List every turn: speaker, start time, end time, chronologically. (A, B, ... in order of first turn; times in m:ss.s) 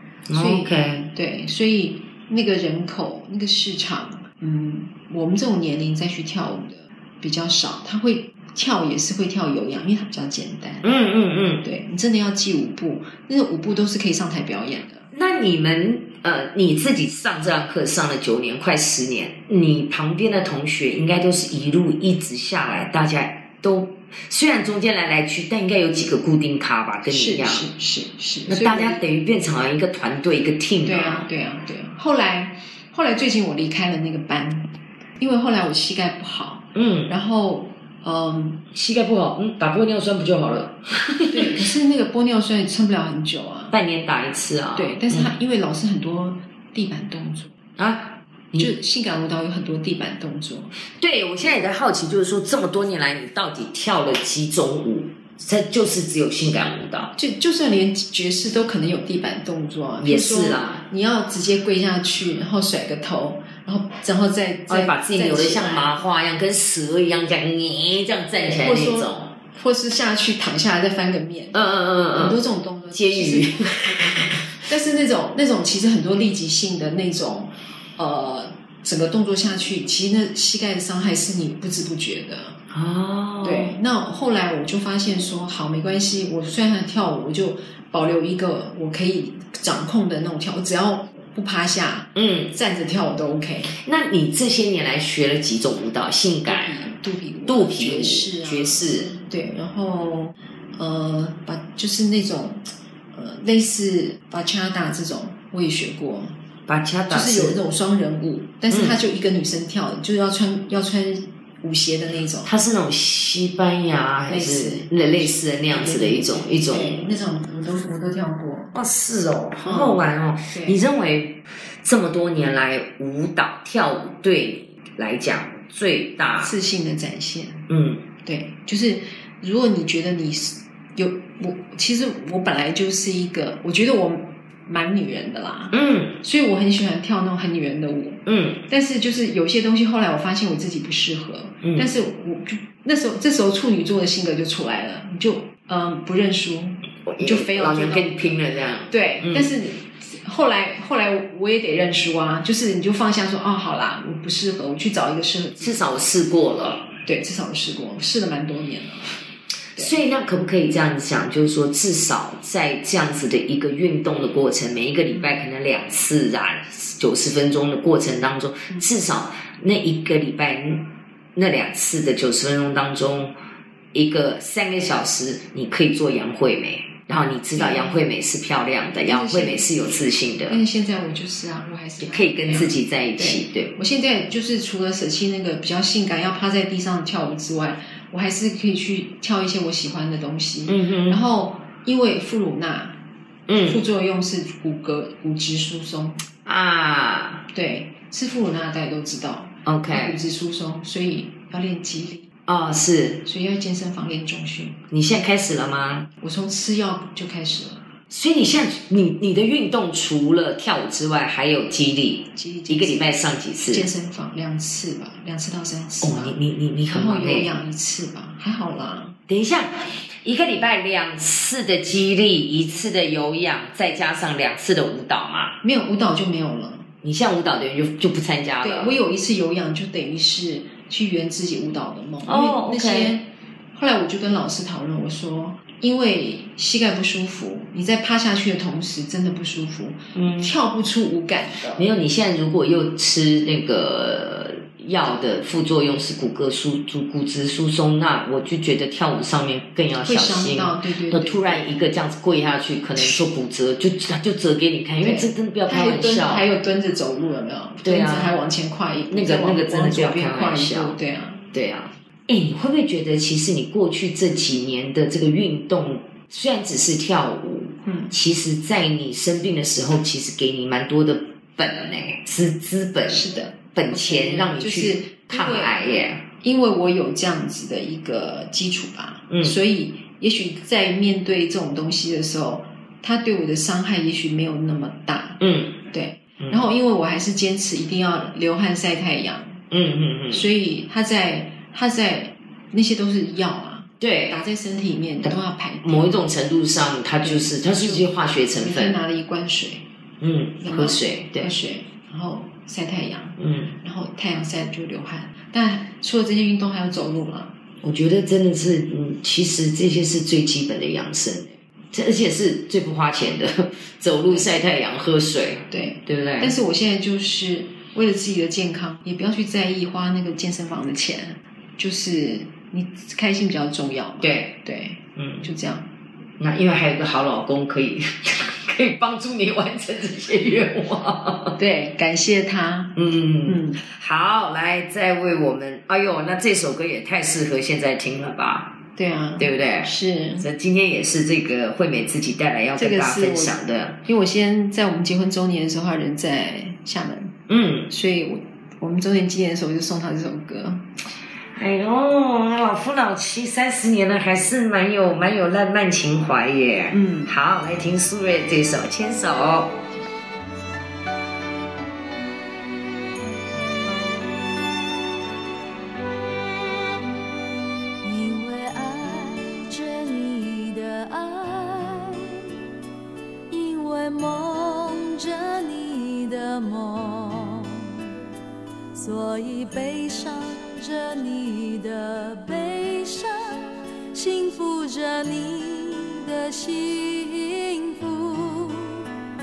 0:00.3-0:01.1 A
0:00.3-0:11.0 B
0:10.8-0:11.6 A
0:11.6-0:15.1 B
0:15.1-0:27.7 A
0:27.1-0:29.0 B
0:28.5-0:31.3 A
0:30.8-0:38.6 B
0:36.8-0:37.1 A
0:38.7-0:41.6 A
0:41.3-0:43.8 B
0:43.7-0:45.3 A
0:44.8-0:47.5 B
0:47.8-0:48.7 A
0:48.6-0:50.8 B
0:51.0-0:57.1 A
0:57.2-1:06.0 B
1:00.0-1:00.8 A
1:04.7-1:09.3 A
1:08.6-1:11.6 B
1:11.5-1:12.4 A
1:12.1-1:22.6 B
1:12.9-1:14.5 A
1:22.7-1:23.8 A
1:23.4-1:33.7 B
1:32.2-1:32.5 A
1:33.7-1:36.8 A
1:36.5-1:46.4 B
1:37.5-1:39.1 A
1:46.7-1:47.6 A
1:47.1-1:52.5 B
1:48.7-1:49.0 A
1:52.4-1:57.1 A
1:54.3-1:58.8 B
1:58.7-2:06.5 A
1:59.6-2:00.8 B
2:06.4-2:07.7 B
2:07.7-2:08.0 A
2:08.2-2:28.2 B
2:15.7-2:16.2 A
2:18.3-2:18.6 A
2:27.1-2:29.5 A
2:28.9-2:35.9 B
2:35.6-2:36.9 A
2:37.0-2:39.2 B
2:39.8-2:53.3 A
2:45.1-2:45.4 B
2:53.9-3:00.6 A
2:57.6-2:58.0 B
2:59.1-2:59.7 B
3:00.5-3:13.0 B
3:02.0-3:03.7 A
3:10.7-3:11.2 A
3:13.5-3:13.8 A
3:13.6-3:16.2 B
3:16.5-3:17.5 A
3:17.5-3:22.3 B
3:19.7-3:20.2 A
3:22.5-3:23.2 A
3:23.2-3:24.8 B
3:24.9-3:26.1 A
3:26.2-3:27.8 B
3:28.1-3:33.9 A
3:32.3-3:33.1 B
3:33.7-3:36.4 B
3:36.0-3:37.5 A
3:36.9-3:39.2 B
3:39.3-3:45.6 A
3:45.6-3:46.9 B
3:47.0-3:49.0 A
3:48.6-4:01.9 B
3:52.2-3:53.2 A
4:00.2-4:00.6 A
4:01.8-4:16.4 A
4:10.0-4:11.7 B
4:15.0-4:21.4 B
4:17.8-4:18.3 A
4:19.1-4:21.0 A
4:21.5-4:36.2 A
4:27.8-4:28.1 B
4:33.1-4:35.8 B
4:36.4-4:49.6 B
4:45.4-4:45.8 A
4:49.7-4:50.5 A
4:50.3-4:56.2 B
4:54.0-4:54.4 A
4:55.8-4:59.0 A
4:57.2-4:59.8 B
5:00.2-5:01.5 A
5:00.6-5:07.5 B
5:03.4-5:03.7 A
5:07.8-5:16.5 A
5:15.7-5:25.9 B
5:24.2-5:24.6 A
5:25.2-5:25.5 A
5:26.4-5:31.6 A
5:31.6-5:33.8 B
5:33.0-5:38.8 A
5:39.0-5:40.5 B
5:39.4-5:44.0 A
5:42.8-5:47.4 B
5:47.5-5:47.9 A
5:47.9-5:50.8 B
5:51.5-5:59.8 A
5:56.9-5:57.3 B
6:08.0-6:12.6 C
6:13.5-6:18.2 C
6:18.9-6:29.1 C